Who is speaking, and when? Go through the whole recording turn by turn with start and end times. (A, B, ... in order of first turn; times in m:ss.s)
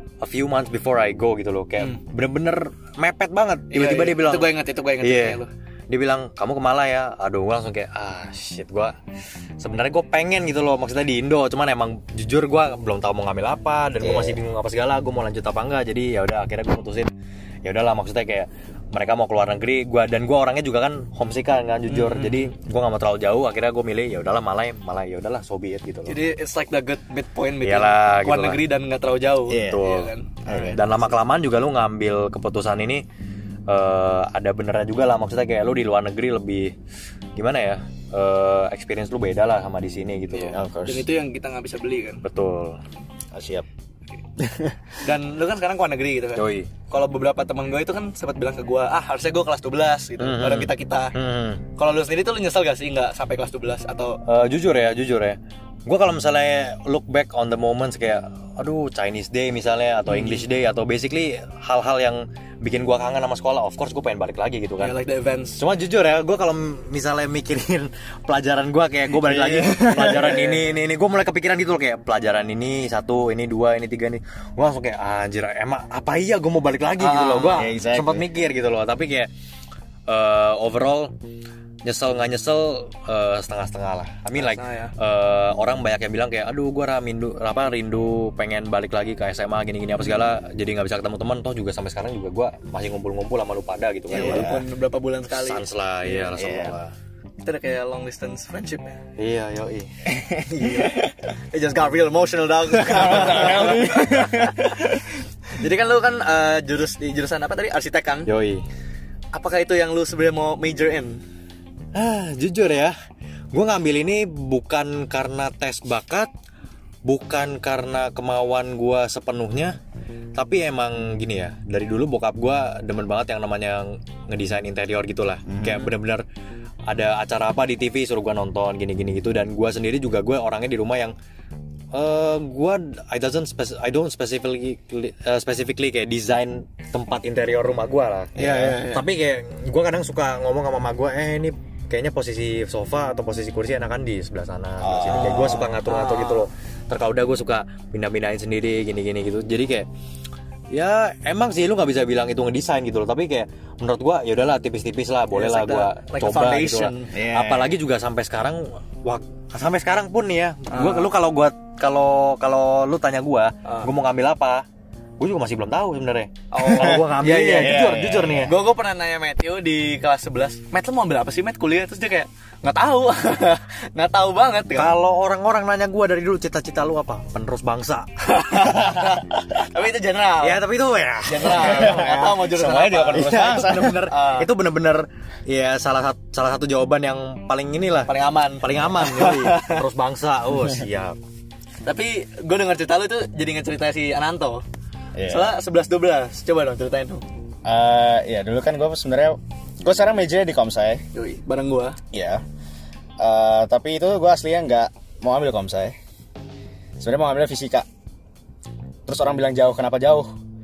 0:00.2-0:08.9 A
0:03.7-0:05.5 B
0:09.6-0:17.1 A
0:14.0-0:14.4 C
0:17.6-0:26.2 A
0:21.9-0:22.5 B
0:26.1-0:31.0 B
0:27.6-0:28.6 A
0:29.5-0:29.8 C
0:29.5-0:33.0 A
0:30.4-0:30.8 C
0:33.7-0:36.7 A
0:37.4-0:40.6 A
0:40.3-0:42.2 B
0:40.5-0:41.1 C
0:42.2-0:42.8 A
0:43.3-0:43.6 C
0:44.4-0:44.7 C
0:45.0-0:51.1 B
0:46.3-0:46.7 A
0:50.2-0:51.6 A
0:51.8-0:54.2 B
0:54.2-1:04.9 A
1:00.1-1:00.4 B
1:04.8-1:05.6 B
1:05.6-1:19.3 A
1:09.2-1:10.6 C
1:17.0-1:17.7 B
1:17.5-1:18.2 C
1:20.1-1:21.1 A
1:21.8-1:34.6 A
1:24.3-1:24.9 B
1:34.1-1:34.6 C
1:34.1-1:36.3 B
1:35.3-1:36.9 A
1:36.3-1:36.8 C
1:37.4-1:39.0 B
1:39.2-1:39.9 A
1:40.1-1:41.1 C
1:40.5-1:41.0 B
1:41.5-1:44.7 B
1:42.8-1:45.0 C
1:45.5-1:48.3 B
1:48.2-1:48.6 A
1:49.3-1:51.2 B
1:51.9-1:52.9 A
1:53.5-1:56.3 A
1:57.0-1:59.8 A
2:00.4-2:06.2 A
2:05.5-2:05.9 C
2:06.9-2:11.1 A
2:11.9-2:29.9 A
2:18.4-2:18.8 C
2:18.4-2:19.1 B
2:24.8-2:25.8 C
2:25.1-2:26.5 B
2:30.7-2:44.6 A
2:35.3-2:37.1 B
2:37.1-2:37.8 C
2:40.7-2:41.1 B
2:45.2-2:48.5 A
2:46.5-2:55.0 B
2:47.6-2:48.5 C
2:54.7-2:59.0 A
2:58.3-3:00.6 B
3:00.4-3:02.4 A
3:01.2-3:04.5 B
3:01.4-3:04.1 C
3:03.1-3:11.2 A
3:08.1-3:09.8 B
3:11.8-3:14.6 B
3:15.1-3:15.5 C
3:15.2-3:17.2 B
3:17.6-3:21.0 C
3:21.1-3:22.0 B
3:22.1-3:22.4 C
3:23.2-3:26.0 C
3:27.0-3:27.8 C
3:29.0-3:30.3 C